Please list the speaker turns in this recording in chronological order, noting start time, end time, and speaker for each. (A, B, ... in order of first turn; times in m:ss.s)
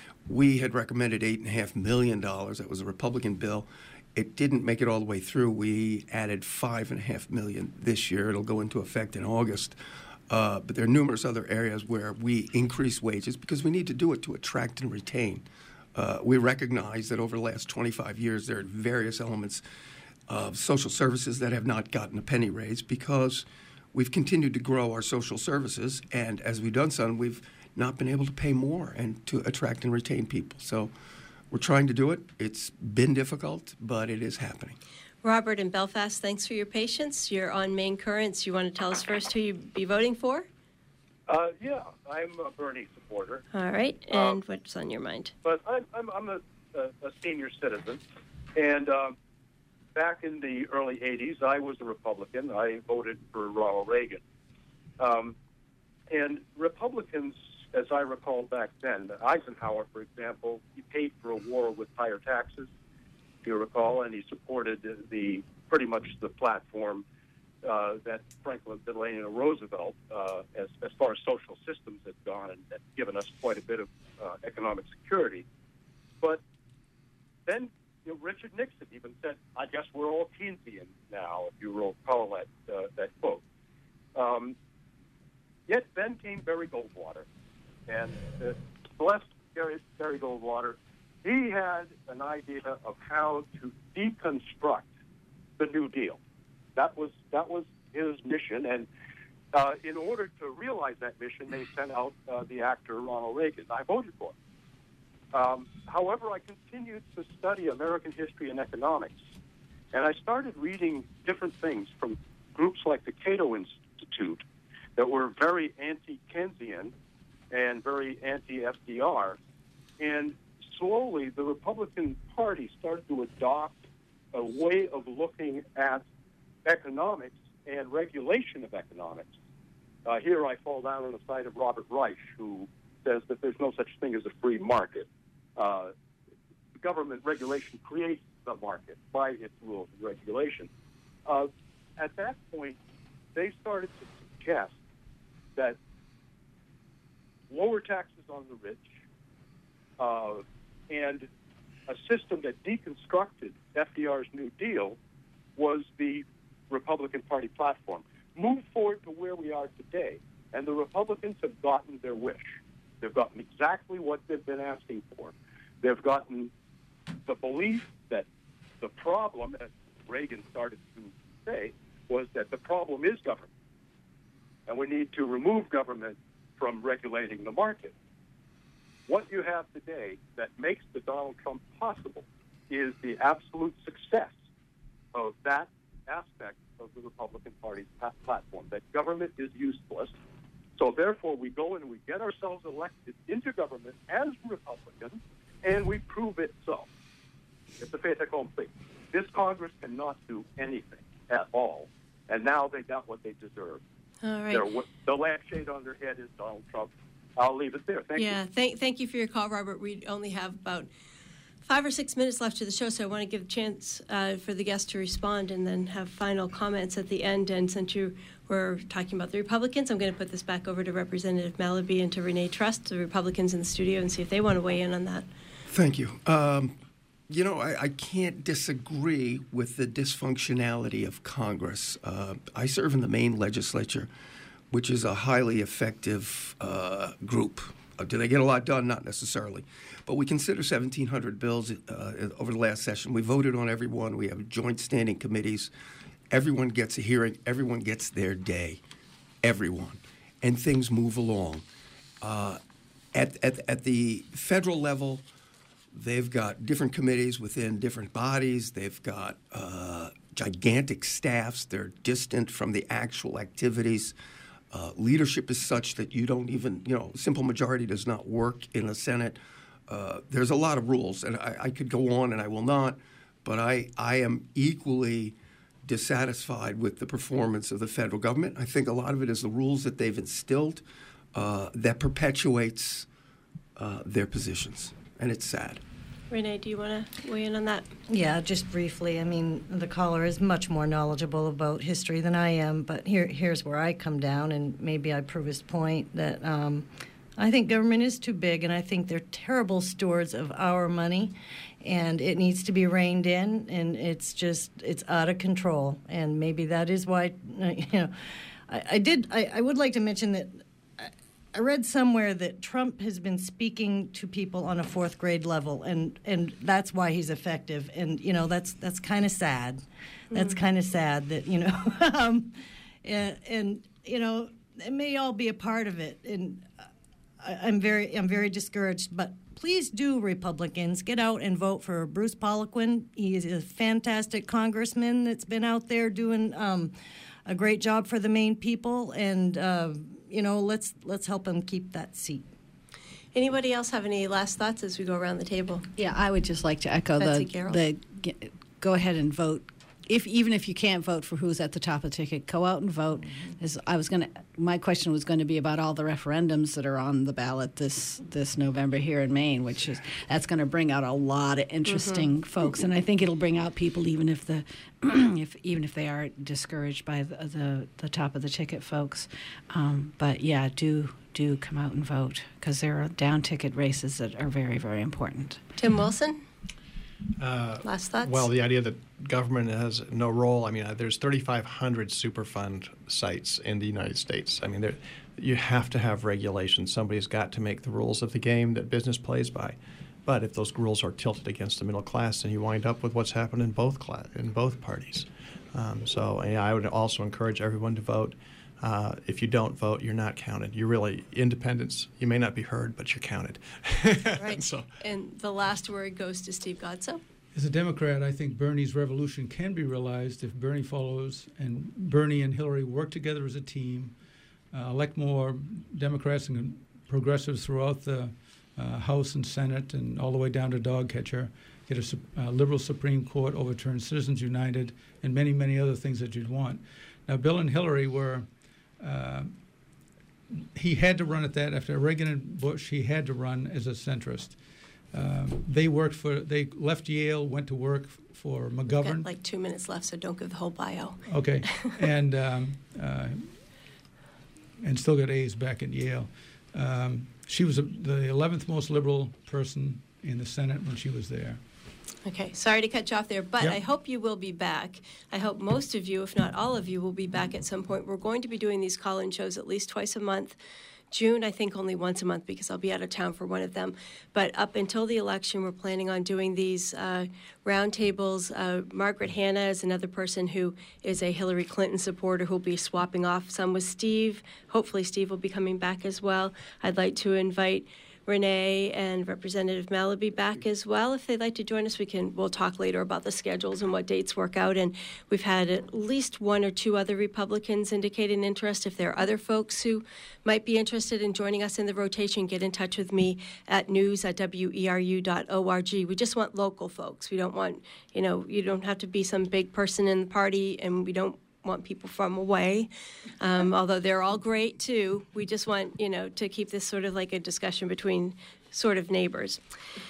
0:00.3-0:09.8 A
0:10.3-0:19.6 A
0:20.3-0:30.9 A
0:31.5-0:34.8 A
0:35.2-0:40.5 B
0:41.3-0:43.4 C
0:43.5-0:45.3 B
0:44.1-0:44.4 C
0:45.4-0:48.0 C
0:48.6-0:49.1 C
0:49.9-0:54.2 C
0:55.0-0:55.3 C
0:56.1-1:02.7 C
1:03.4-1:07.0 C
1:07.6-1:15.4 C
1:17.5-1:23.4 C
1:24.1-1:24.6 C
1:25.7-1:27.2 C
1:27.9-1:34.9 C
1:35.6-1:36.2 C
1:36.8-1:38.9 C
1:39.5-1:44.3 C
1:45.3-1:49.2 C
1:49.9-1:54.4 C
1:55.0-1:56.9 C
1:57.5-1:59.4 C
2:00.0-2:03.8 C
2:04.3-2:06.0 C
2:06.6-2:09.3 C
2:10.0-2:15.9 C
2:16.8-2:20.7 C
2:21.3-2:22.8 C
2:23.3-2:24.7 C
2:27.5-2:28.9 C
2:30.0-2:31.3 C
2:31.9-2:35.0 C
2:35.6-2:46.5 C
2:47.3-2:48.3 C
2:48.8-2:53.5 C
2:54.7-2:57.9 C
2:59.1-3:04.3 C
3:05.1-3:10.1 C
3:10.8-3:16.9 C
3:17.8-3:23.8 C
3:24.2-3:24.7 B
3:24.5-3:28.4 C
3:28.2-3:30.9 B
3:31.6-3:45.3 B
3:45.7-3:46.8 A
3:47.3-3:54.1 A
3:54.7-4:05.7 A
4:06.3-4:08.8 A
4:09.4-4:11.6 A
4:12.2-4:12.6 A
4:13.1-4:15.2 A
4:15.9-4:24.1 A
4:24.7-4:40.8 A
4:41.3-4:43.1 A
4:43.8-4:45.8 A
4:46.3-4:47.9 B
4:48.1-5:08.1 D
5:08.7-5:26.7 D
5:20.3-5:20.6 B
5:27.4-5:36.9 D
5:37.4-5:42.4 D
5:43.3-5:45.9 B
5:46.0-6:15.6 E
5:47.2-5:47.8 B
6:01.9-6:02.3 B
6:15.8-6:16.4 B
6:17.4-6:44.8 F
6:17.8-6:18.5 B
6:44.4-6:47.2 B
6:47.5-6:54.2 G
6:54.7-7:08.5 G
7:09.0-7:09.6 G
7:10.5-7:14.6 G
7:15.1-7:19.3 G
7:18.9-7:21.2 B
7:21.3-7:23.5 G
7:24.8-7:31.6 G
7:32.2-7:40.6 B
7:41.1-8:29.6 B